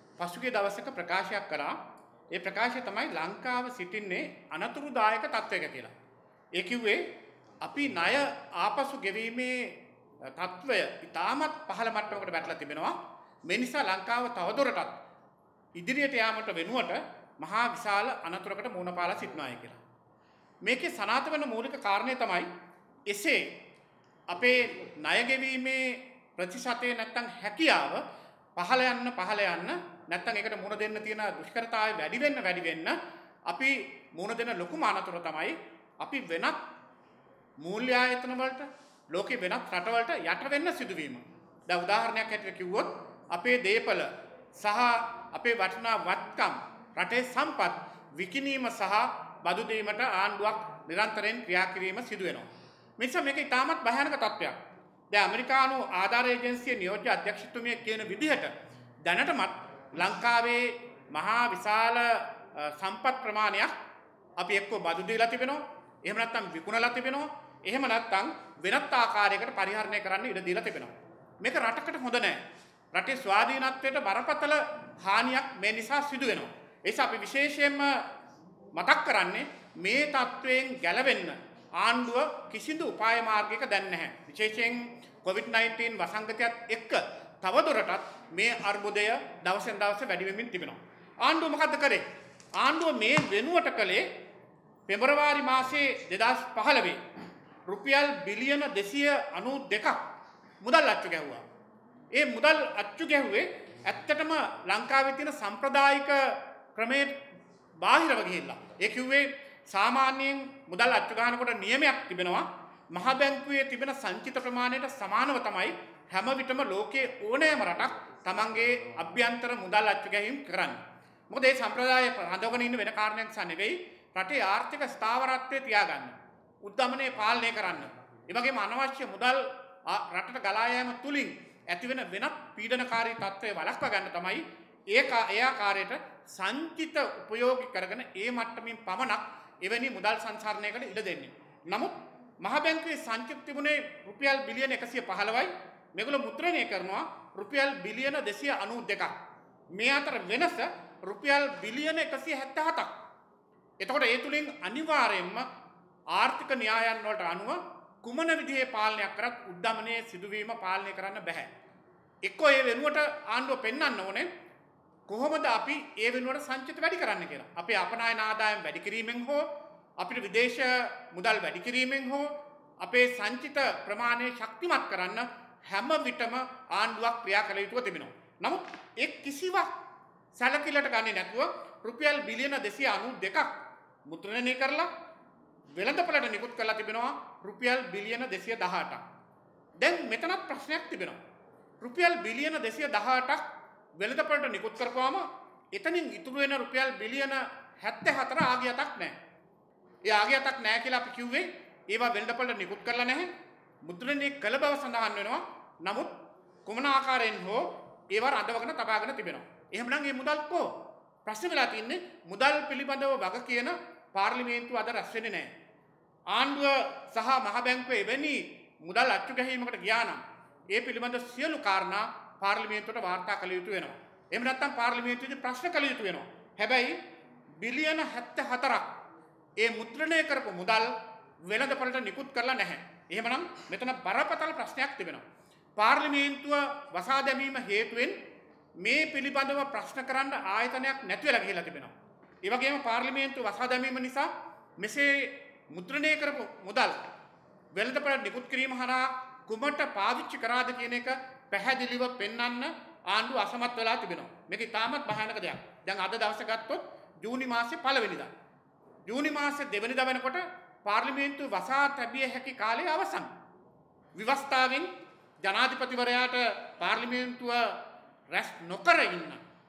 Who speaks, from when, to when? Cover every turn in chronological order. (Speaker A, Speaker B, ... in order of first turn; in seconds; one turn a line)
Speaker A: 0.2-1.8
Speaker A: 2.3-5.9
Speaker A: 6.5-15.0
Speaker A: 15.8-19.8
Speaker A: 20.6-22.5
Speaker A: 23.1-23.6
Speaker A: 24.3-28.0
Speaker A: 28.6-36.7
Speaker A: 37.6-54.6
Speaker A: 55.1-63.7
Speaker A: 64.4-78.1
Speaker A: 78.7-92.0
Speaker A: 92.5-94.1
Speaker A: 94.9-97.0
Speaker A: 97.7-100.0
Speaker A: 100.6-101.4
Speaker A: 102.1-107.2
Speaker A: 107.8-149.1
Speaker A: 149.7-153.0
Speaker A: 153.8-155.5
Speaker A: 156.1-161.5
Speaker A: 162.2-164.3
Speaker A: 165.1-179.7
Speaker A: 180.3-184.9
Speaker A: 185.7-189.0
Speaker A: 189.8-191.2
Speaker A: 191.8-199.2
Speaker A: 200.0-203.3
Speaker A: 203.8-215.5
Speaker A: 216.3-227.0
Speaker A: 227.5-229.0
Speaker A: 229.6-235.2
Speaker A: 235.8-238.2
Speaker A: 238.8-247.1
Speaker A: 247.7-258.3
Speaker A: 259.1-263.3
Speaker A: 264.1-269.4